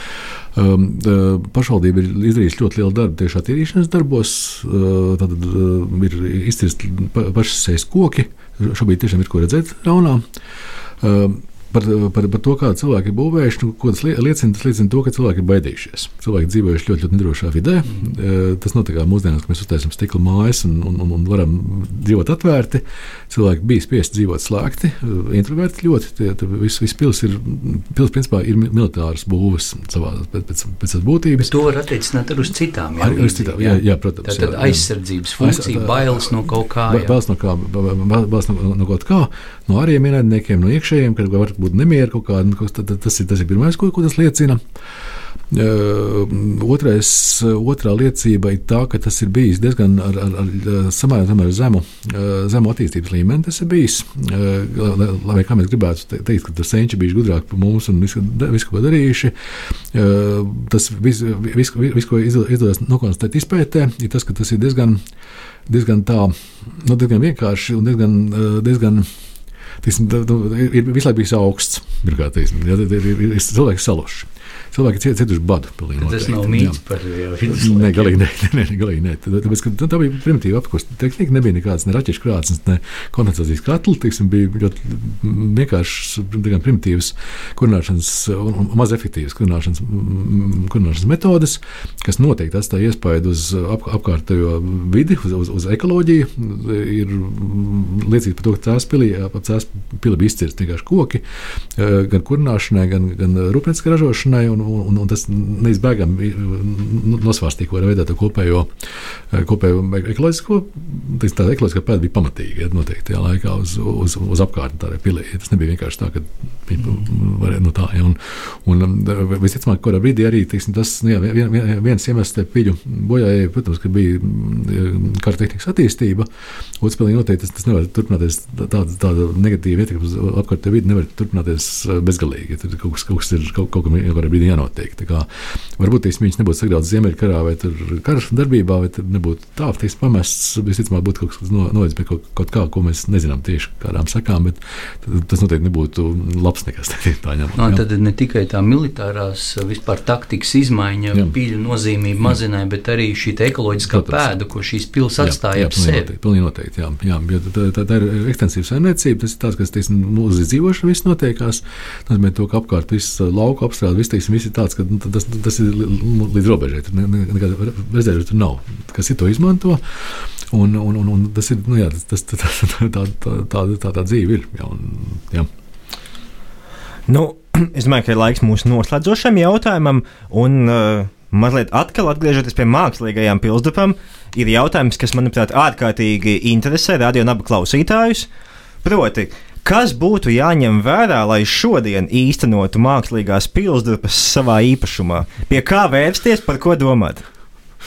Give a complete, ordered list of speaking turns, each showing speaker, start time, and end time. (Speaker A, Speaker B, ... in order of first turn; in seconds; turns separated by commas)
Speaker A: 0.5-10.2, Speaker A: 11.0-31.5, Speaker B: 31.4-37.1, Speaker A: 33.0-36.3, Speaker A: 36.9-44.6, Speaker A: 45.5-65.0, Speaker A: 65.7-69.1, Speaker A: 69.8-76.8, Speaker B: 76.0-78.2, Speaker A: 77.5-101.2, Speaker A: 101.7-108.7, Speaker A: 109.3-126.3, Speaker A: 126.8-147.8, Speaker B: 147.6-156.1, Speaker A: 153.9-154.3, Speaker A: 155.2-175.5, Speaker C: 177.1-188.3, Speaker C: 188.8-197.2